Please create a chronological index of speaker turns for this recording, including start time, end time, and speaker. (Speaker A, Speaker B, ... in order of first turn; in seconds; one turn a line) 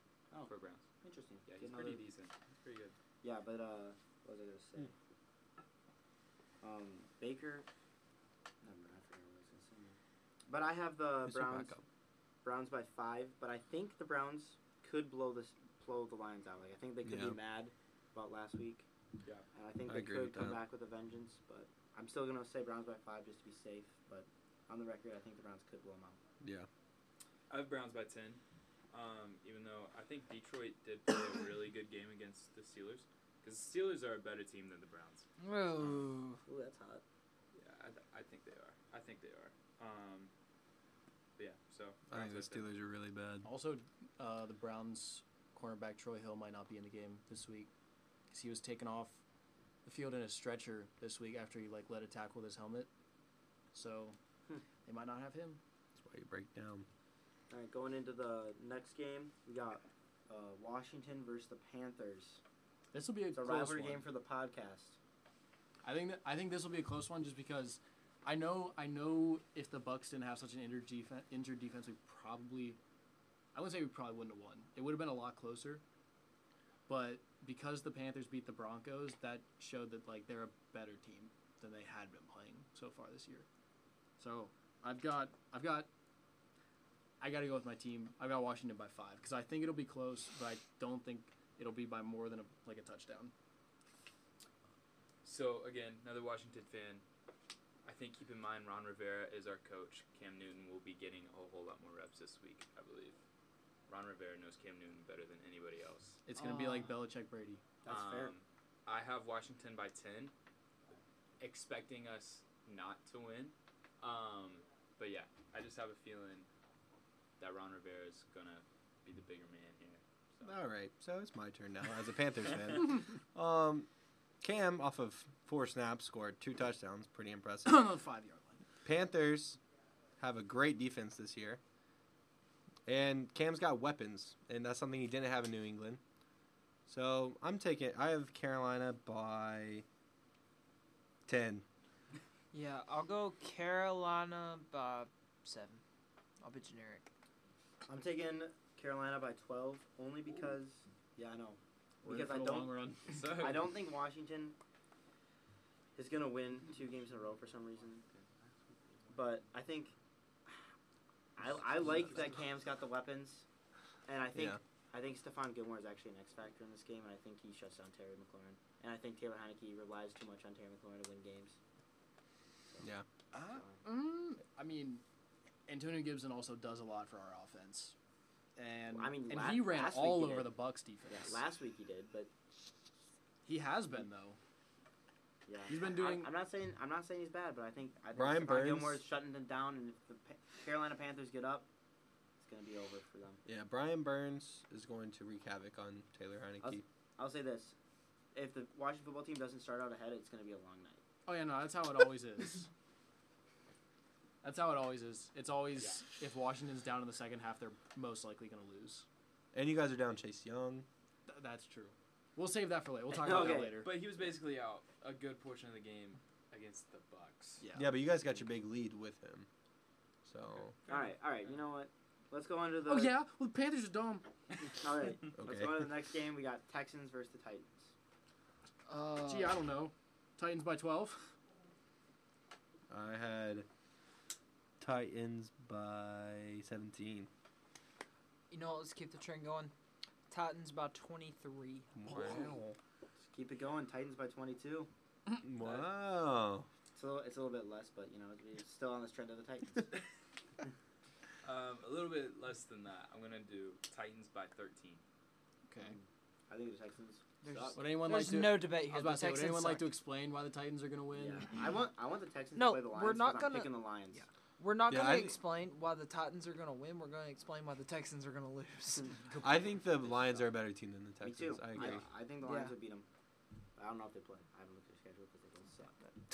Speaker A: 0.3-2.0
Speaker B: 0.5-0.8
Speaker B: 1.4-3.0
Speaker A: 3.2-4.9
Speaker A: 6.6-7.7
Speaker A: 8.6-11.7
Speaker C: 11.3-11.8
Speaker A: 12.4-18.9
Speaker C: 17.0-17.4
Speaker A: 19.5-26.2
Speaker C: 19.9-20.6
Speaker C: 26.4-26.7
Speaker B: 27.5-35.2
Speaker D: 35.4-36.4
Speaker A: 36.5-37.0
Speaker B: 37.5-40.3
Speaker B: 41.4-42.6
Speaker C: 42.1-43.5
Speaker E: 43.4-47.7
Speaker E: 48.3-49.2
Speaker E: 49.8-52.9
Speaker E: 53.7-54.1
Speaker E: 54.8-55.6
Speaker C: 56.0-56.9
Speaker A: 57.5-62.4
Speaker E: 62.9-64.1
Speaker A: 63.3-65.0
Speaker E: 65.8-72.8
Speaker E: 73.5-75.8
Speaker E: 76.9-83.5
Speaker E: 84.2-85.9
Speaker E: 87.2-93.3
Speaker B: 95.2-97.0
Speaker B: 97.8-103.2
Speaker B: 103.9-106.2
Speaker E: 106.2-107.6
Speaker D: 106.3-107.0
Speaker A: 107.8-108.3
Speaker B: 107.8-110.3
Speaker B: 111.4-116.5
Speaker B: 117.4-120.6
Speaker C: 120.4-123.9
Speaker C: 124.4-128.0
Speaker E: 127.6-128.6
Speaker C: 128.8-129.6
Speaker C: 130.2-131.6
Speaker C: 132.9-136.0
Speaker C: 136.9-139.8
Speaker C: 141.3-141.6
Speaker D: 142.5-145.8
Speaker D: 146.4-147.0
Speaker A: 147.8-154.6
Speaker E: 152.0-153.4
Speaker B: 153.1-153.7
Speaker A: 155.9-158.0
Speaker B: 158.1-159.2
Speaker A: 159.1-159.9
Speaker A: 161.3-163.4
Speaker A: 164.1-171.6
Speaker C: 164.3-164.6
Speaker E: 173.3-175.0
Speaker A: 173.4-173.8
Speaker E: 175.7-177.9
Speaker E: 178.6-181.4
Speaker A: 178.9-180.5
Speaker A: 181.1-182.3
Speaker E: 183.4-184.4
Speaker A: 185.5-191.7
Speaker E: 185.7-186.3
Speaker C: 188.1-189.0
Speaker A: 192.4-193.4
Speaker C: 193.4-196.8
Speaker A: 196.6-197.8
Speaker A: 198.3-201.0
Speaker E: 201.2-202.7
Speaker E: 204.4-209.1
Speaker C: 209.5-210.9
Speaker E: 211.3-214.0
Speaker A: 213.1-213.8
Speaker B: 213.4-217.6
Speaker E: 217.6-218.0
Speaker C: 217.7-219.5
Speaker C: 220.2-220.7
Speaker A: 220.9-223.2
Speaker E: 222.8-224.2
Speaker A: 224.8-227.9
Speaker C: 225.3-225.8
Speaker E: 228.9-231.3
Speaker C: 232.9-233.7
Speaker C: 234.8-237.3
Speaker D: 238.5-239.7
Speaker D: 240.3-242.5
Speaker C: 241.9-242.8
Speaker A: 242.1-242.5
Speaker A: 243.2-244.9
Speaker C: 245.4-246.7
Speaker B: 245.6-245.9
Speaker A: 246.9-250.0
Speaker B: 251.4-255.0
Speaker E: 255.7-256.0
Speaker A: 255.8-257.8
Speaker D: 257.4-260.0
Speaker E: 257.7-261.6
Speaker A: 261.1-264.2
Speaker D: 262.5-269.6
Speaker C: 264.9-265.4
Speaker A: 269.0-270.5
Speaker C: 269.4-272.0
Speaker A: 271.2-273.1
Speaker D: 272.4-272.7
Speaker A: 273.8-276.0